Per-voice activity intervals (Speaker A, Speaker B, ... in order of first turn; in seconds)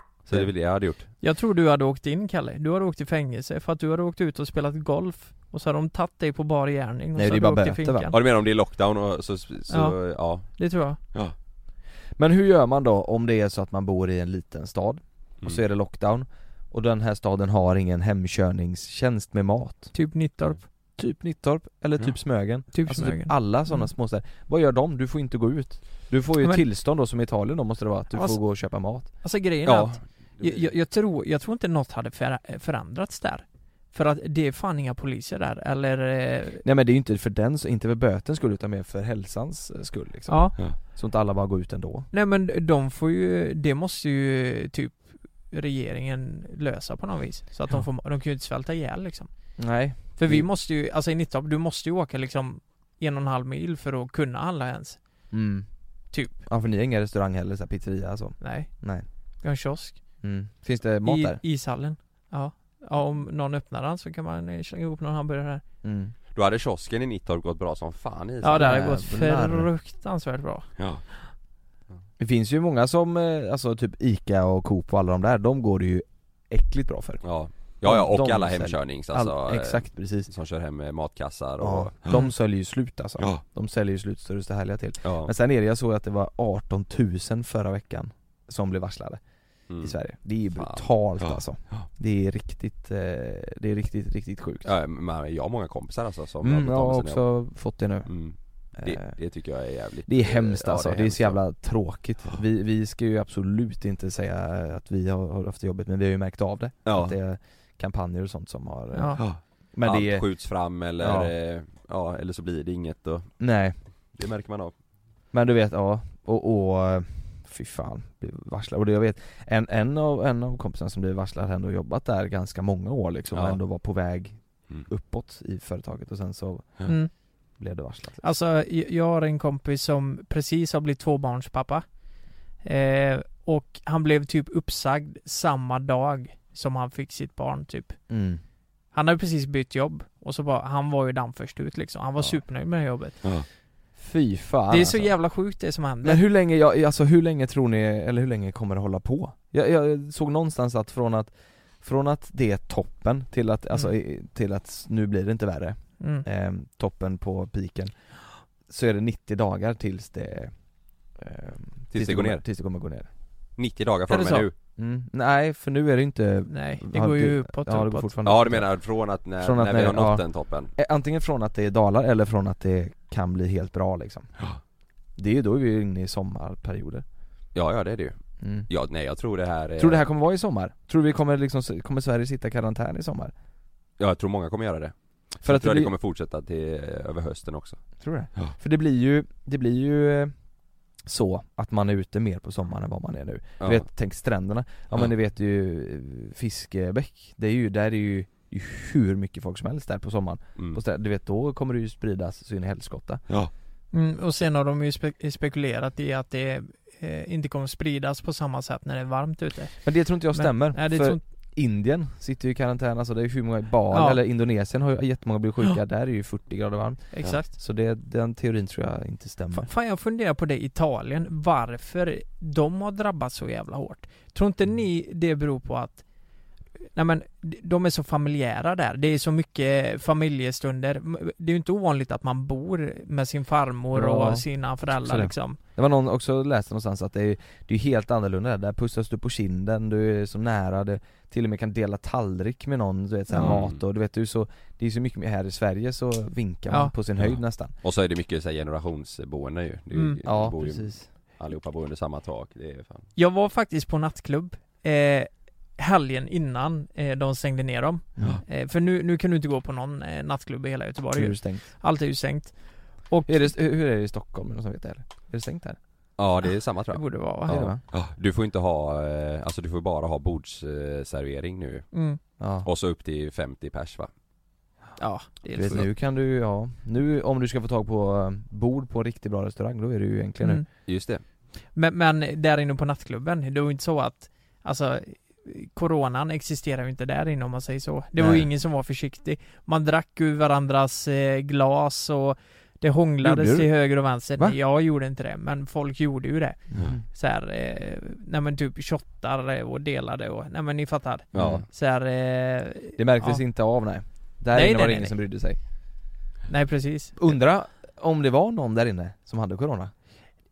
Speaker A: 0.2-1.1, 8.1-10.5, 29.6-30.0, 66.3-68.7, 70.8-71.0, 77.2-82.2, 85.0-85.3, 89.7-90.0, 90.5-91.9, 94.6-97.2, 98.0-101.4, 106.8-107.1, 109.2-113.3, 114.1-114.7, 123.3-123.6, 161.9-162.4, 163.6-164.5, 168.2-170.7, 177.5-178.1, 178.7-180.0, 184.0-187.8, 193.6-193.8, 243.4-243.8, 247.2-253.1, 266.2-271.9, 272.6-274.1, 280.8-281.2, 301.3-301.6
Speaker B: 1.2-8.2, 9.7-11.0, 19.9-20.6, 22.7-23.9, 28.1-28.4, 29.2-36.6, 40.3-40.6, 42.1-49.3, 50.1-55.0, 58.4-58.7, 59.4-60.0, 61.0-65.6, 68.4-70.7, 108.9-109.2, 126.8-127.1, 128.2-131.8, 132.6-138.0, 138.9-143.2, 144.7-146.2, 156.0-156.2, 164.1-164.5, 166.5-168.1, 203.9-211.2, 213.9-214.2, 217.1-217.5, 219.5-226.1, 226.9-235.6, 243.3-243.6, 249.9-250.2, 253.2-263.5, 266.9-267.5, 271.9-272.2, 275.0-275.9, 281.7-303.4, 304.5-305.2, 306.5-307.2
Speaker C: 7.2-8.1, 12.2-19.9, 21.0-29.1, 36.6-42.1, 49.6-50.5, 55.3-55.7, 56.5-59.0, 60.2-61.4, 65.8-66.1, 68.6-69.7, 72.2-77.2, 77.8-80.3, 81.6-89.2, 89.8-94.7, 96.4-98.1, 98.8-99.1, 100.1-110.3, 111.0-111.3, 113.4-113.8, 115.3-126.9, 127.5-128.2, 138.1-138.4, 143.9-145.1, 146.0-157.9, 158.7-160.5, 161.2-163.1, 164.8-168.7, 169.4-170.2, 170.7-174.3, 175.2-177.0, 178.4-178.7, 179.8-183.3, 185.4-185.9, 188.0-190.3, 191.0-203.2, 209.8-219.7, 233.9-247.7, 250.2-251.1, 258.2-258.4, 261.1-261.6, 263.3-265.8, 267.5-267.8, 272.4-272.7, 275.5-280.6, 288.2-288.5, 293.2-294.6, 296.7-297.0, 301.3-301.6, 303.0-305.6, 307.2-309.9